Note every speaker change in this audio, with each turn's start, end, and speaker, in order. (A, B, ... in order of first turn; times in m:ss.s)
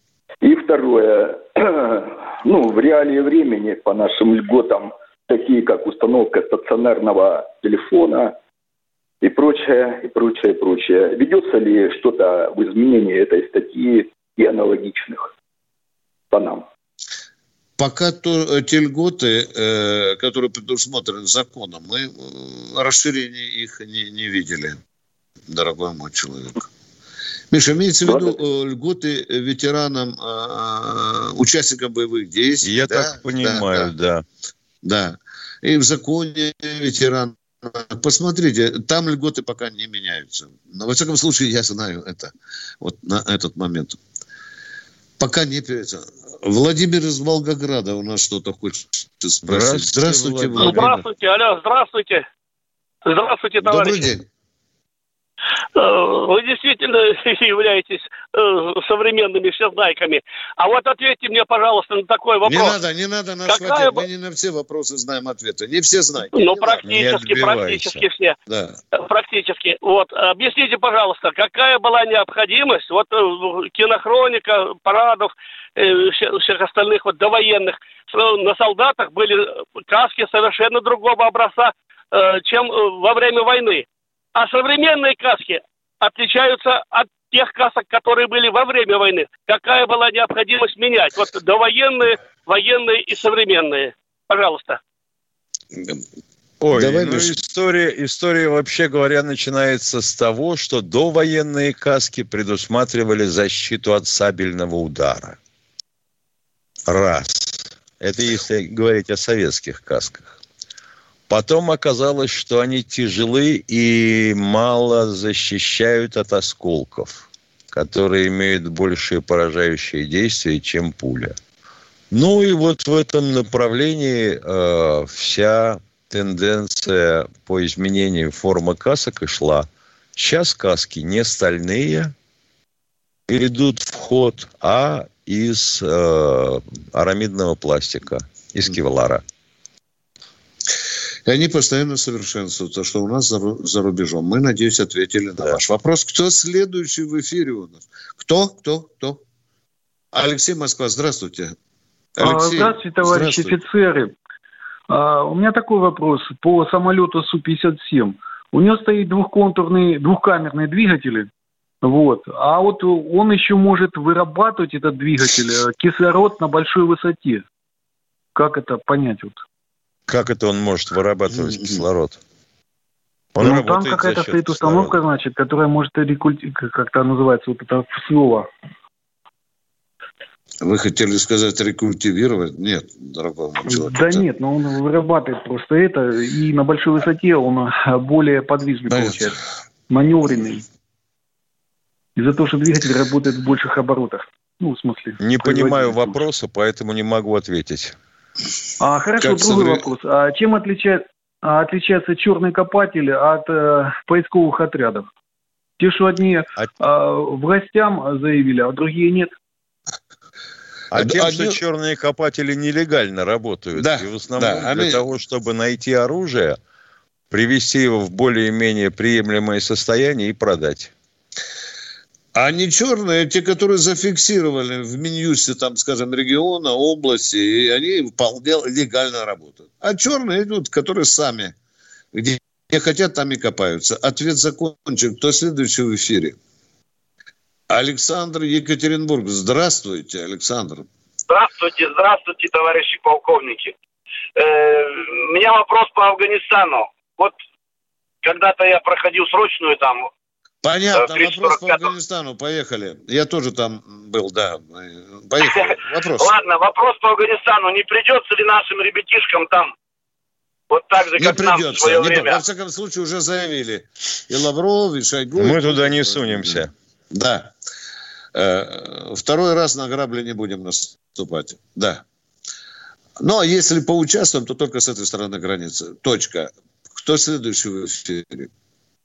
0:00.4-0:08.3 A
0:09.2-0:15.3 A
0:16.3-0:16.6 A
0:17.8-0:24.8 B
0:25.5-0:26.6 B
0:27.5-0:33.9 B
0:32.6-0:34.2 C
0:34.8-0:44.0 B
0:45.2-0:51.0 B
0:49.5-0:50.9 C
0:50.6-0:52.2 D
0:53.1-0:54.1 D
0:53.6-0:54.3 B
0:55.8-1:02.8 D
1:02.4-1:06.9 B
1:03.5-1:04.0 D
1:06.3-1:08.4 D
1:06.8-1:08.1 C
1:08.5-1:08.8 B
1:08.9-1:34.8 D
1:36.6-1:45.4 C
1:36.7-1:37.3 B
1:46.9-1:50.4 C
1:51.3-2:01.4 C
2:02.1-2:12.1 C
2:13.3-2:19.2 C
2:21.3-2:29.2 B
2:30.1-2:31.6 B
2:32.2-2:33.6 B
2:32.2-2:34.2 E
2:34.9-2:41.3 E
2:41.8-2:47.4 E
2:48.4-2:49.4 E
2:50.1-2:52.2 C
2:51.3-2:51.8 B
2:53.4-2:58.5 E
2:53.4-2:55.0 C
3:00.6-3:04.2 B
3:03.7-3:09.4 E
3:08.9-3:09.4 B
3:09.9-3:10.6 E
3:12.2-3:16.2 E
3:15.2-3:18.0 C
3:18.8-3:25.1 E
3:19.2-3:19.9 B
3:25.8-3:29.3 E
3:30.9-3:36.6 C
3:30.9-3:31.6 B
3:33.8-3:35.0 B
3:37.3-3:40.9 C
3:42.4-3:51.6 B
3:52.1-3:56.4 B
3:57.7-4:00.9 B
4:01.3-4:03.8 F
4:04.4-4:07.4 F
4:08.2-4:10.1 F
4:10.6-4:16.3 B
4:10.9-4:11.9 F
4:15.4-4:19.7 F
4:20.7-4:22.4 F
4:21.2-4:27.5 B
4:25.4-4:26.7 C
4:28.3-4:32.0 B
4:33.2-4:38.5 B